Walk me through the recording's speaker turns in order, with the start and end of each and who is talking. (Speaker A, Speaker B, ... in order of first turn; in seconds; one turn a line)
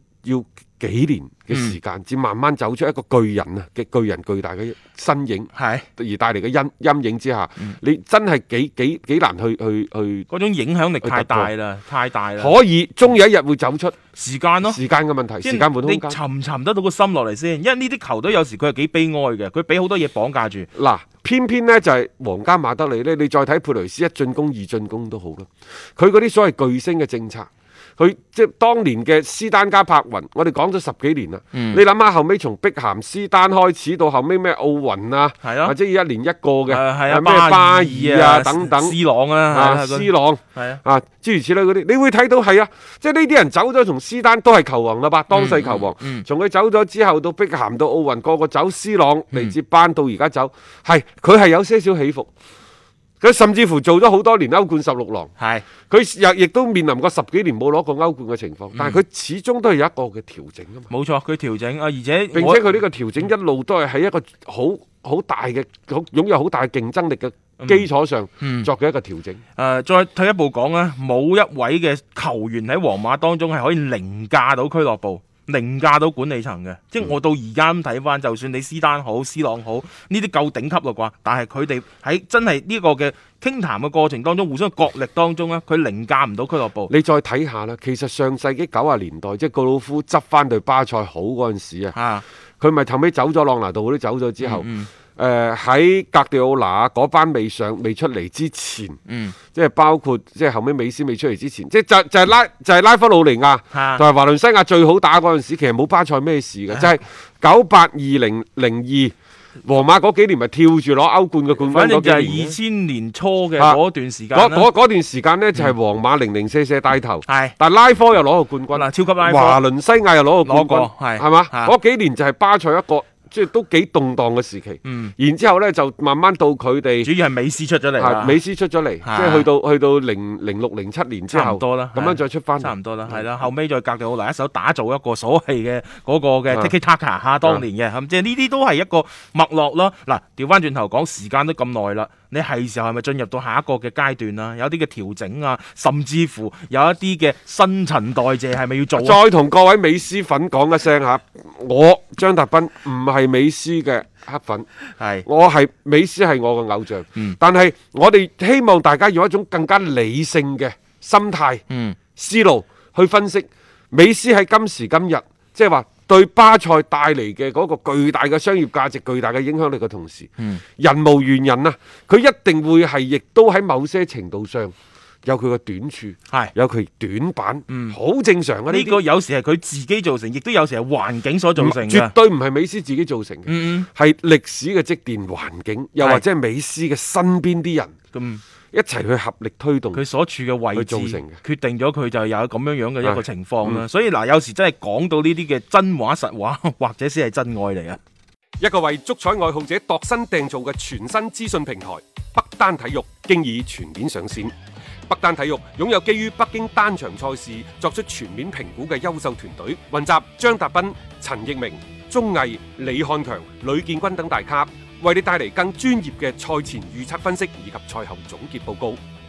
Speaker A: 0.2-10.3
Speaker B: 1.5-1.8
Speaker B: 5.5-5.9
Speaker B: 10.3-12.6
Speaker A: 11.0-11.5
Speaker A: 12.4-13.9
Speaker B: 14.1-14.8
Speaker A: 14.6-16.2
Speaker B: 15.4-20.7
Speaker A: 20.8-39.0
Speaker B: 31.5-31.8
Speaker B: 35.4-35.8
Speaker B: 36.7-40.8
Speaker A: 39.5-52.3
Speaker B: 45.3-46.2
Speaker A: 53.2-55.3
Speaker B: 55.4-55.6
Speaker A: 55.9-60.9
Speaker B: 58.7-59.0
Speaker B: 60.9-62.8
Speaker A: 62.3-69.4
Speaker B: 67.6-67.9
Speaker B: 68.4-68.7
Speaker B: 69.6-86.9
Speaker A: 86.9-92.0
Speaker B: 91.9-92.2
Speaker A: 92.6-99.0
Speaker B: 94.4-94.9
Speaker B: 99.1-99.4
Speaker A: 99.5-109.1
Speaker B: 103.7-104.0
Speaker A: 109.7-112.6
Speaker B: 111.5-114.7
Speaker A: 114.3-127.1
Speaker B: 117.2-117.5
Speaker B: 118.7-119.6
Speaker B: 120.4-121.8
Speaker B: 124.8-125.1
Speaker B: 127.0-128.4
Speaker A: 128.0-133.3
Speaker B: 129.0-129.5
Speaker B: 131.3-149.2
Speaker A: 136.5-136.8
Speaker A: 148.9-154.7
Speaker B: 155.0-155.2
Speaker A: 155.2-161.6
Speaker B: 161.7-162.0
Speaker A: 162.2-174.7
Speaker A: 175.2-179.0
Speaker B: 177.7-178.0
Speaker B: 178.7-182.1
Speaker A: 181.6-187.9
Speaker B: 183.5-183.9
Speaker B: 186.0-186.2
Speaker B: 188.1-188.4
Speaker A: 188.7-190.0
Speaker B: 189.9-198.0
Speaker A: 190.7-191.4
Speaker A: 193.0-193.8
Speaker A: 198.6-204.5
Speaker A: 205.1-219.0